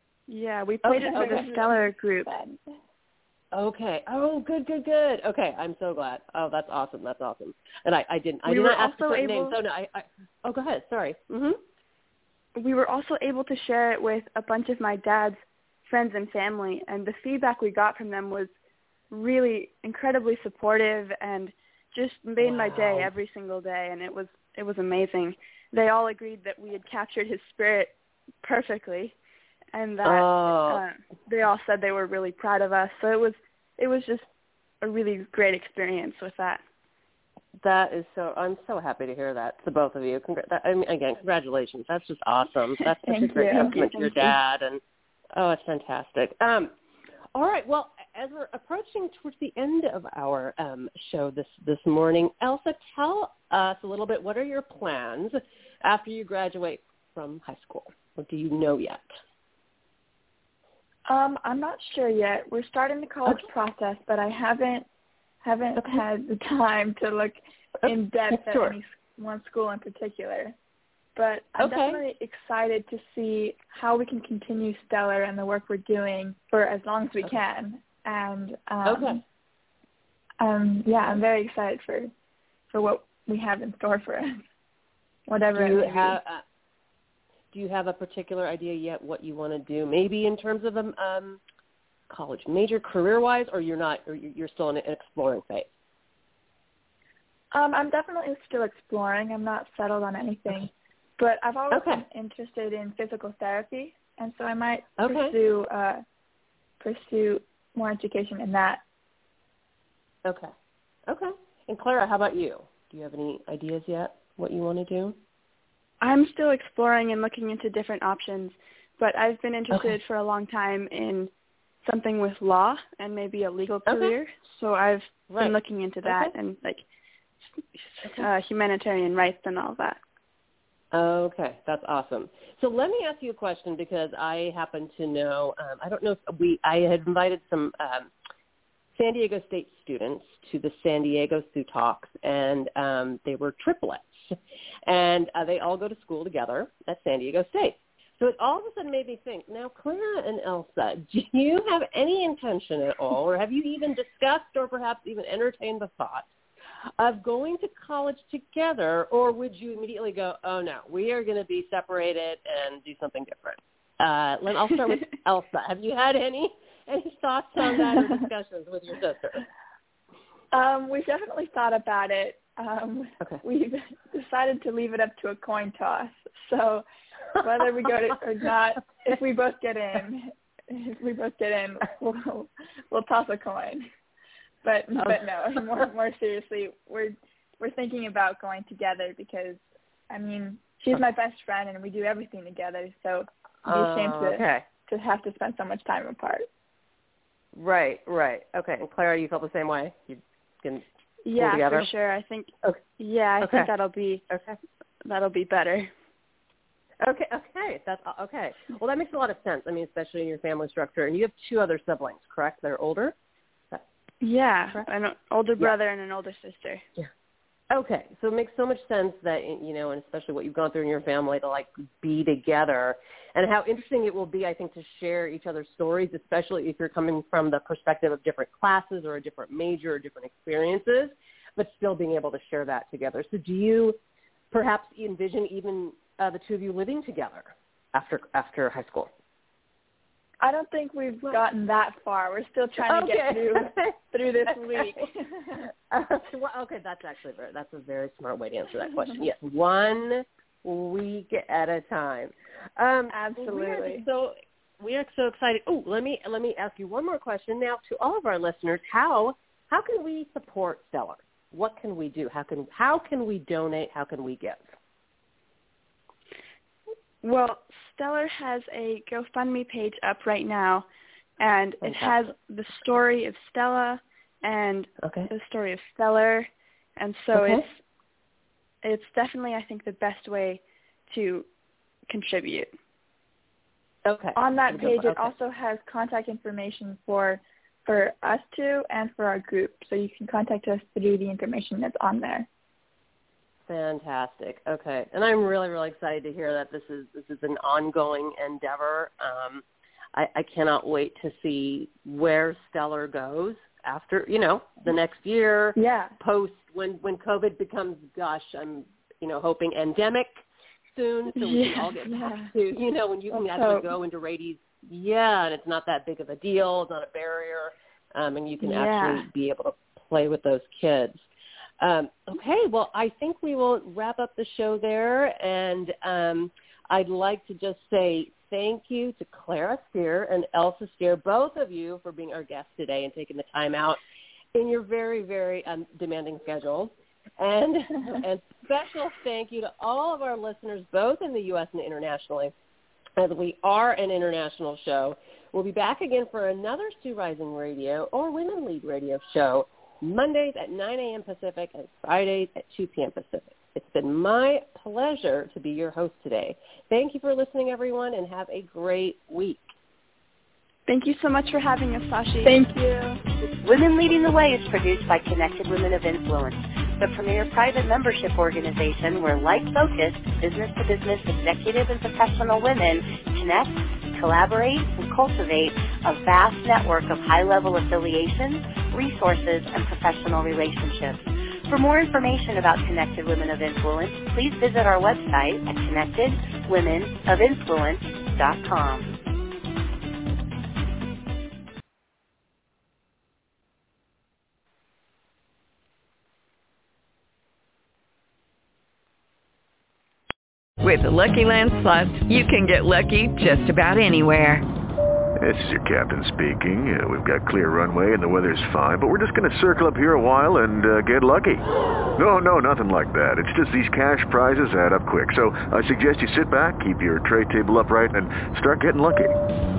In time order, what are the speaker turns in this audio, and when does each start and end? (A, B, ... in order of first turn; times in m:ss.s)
0:00.3-0:02.3 A
0:00.8-0:01.5 B
0:00.9-0:02.6 C
0:03.5-0:11.6 B
0:08.5-0:09.6 A
0:12.6-0:18.5 A
0:19.1-0:27.9 A
0:22.4-0:23.1 B
0:28.4-0:29.1 A
0:29.7-0:34.3 A
0:30.0-0:30.8 B
0:34.8-0:36.6 A
0:37.6-0:44.8 B
0:43.0-0:43.9 C
0:43.6-0:44.3 A
0:45.4-0:46.7 B
0:47.3-0:59.0 B
1:01.1-1:04.9 C
1:05.4-1:10.6 C
1:05.8-1:06.0 B
1:07.8-1:08.8 B
1:11.2-1:19.2 C
1:11.6-1:12.0 B
1:18.9-1:19.2 B
1:20.4-1:22.1 C
1:22.7-1:24.4 C
1:25.3-1:26.2 C
1:25.6-1:26.4 B
1:27.5-1:31.4 B
1:32.1-1:35.7 B
1:37.5-1:46.0 C
1:41.7-1:42.0 B
1:45.0-1:45.4 B
1:46.8-1:48.8 C
1:50.2-1:50.5 B
1:51.1-1:55.2 B
1:56.0-2:01.3 A
2:01.8-2:06.8 A
2:03.9-2:04.1 B
2:05.3-2:06.3 B
2:07.9-2:10.0 A
2:10.9-2:18.1 B
2:19.0-2:36.3 B
2:37.0-2:49.5 B
2:50.5-2:56.8 C
2:57.4-3:03.9 C
3:04.6-3:16.5 C
3:13.6-3:14.7 B
3:17.5-3:20.8 B
3:21.2-3:24.3 A
3:21.4-3:21.9 B
3:23.4-3:23.7 B
3:24.3-3:24.6 B
3:25.0-3:25.9 A
3:27.0-3:33.1 B
3:34.2-3:36.8 A
3:37.7-3:54.0 B
3:54.5-3:59.1 B
4:00.4-4:05.6 C
4:02.8-4:05.0 B
4:05.9-4:24.6 B
4:13.1-4:14.0 C
4:27.2-4:30.9 A
4:31.4-4:37.8 A
4:31.8-4:32.2 B
4:35.0-4:35.3 B
4:37.3-4:37.6 B
4:38.8-4:41.5 A
4:42.1-4:42.7 A
4:44.0-4:45.3 B
4:44.4-4:52.5 C
4:53.7-5:10.3 B
5:05.8-5:06.2 C
5:11.0-5:21.2 B
5:11.4-5:12.3 A
5:13.5-5:13.8 A
5:18.6-5:19.3 A
5:21.8-5:34.0 B
5:34.5-5:42.5 B
5:43.2-5:59.7 B
6:00.9-6:02.6 A
6:02.4-6:03.2 C
6:03.6-6:29.2 D
6:40.8-6:44.6 E
6:45.4-6:51.7 F
6:52.2-6:59.3 F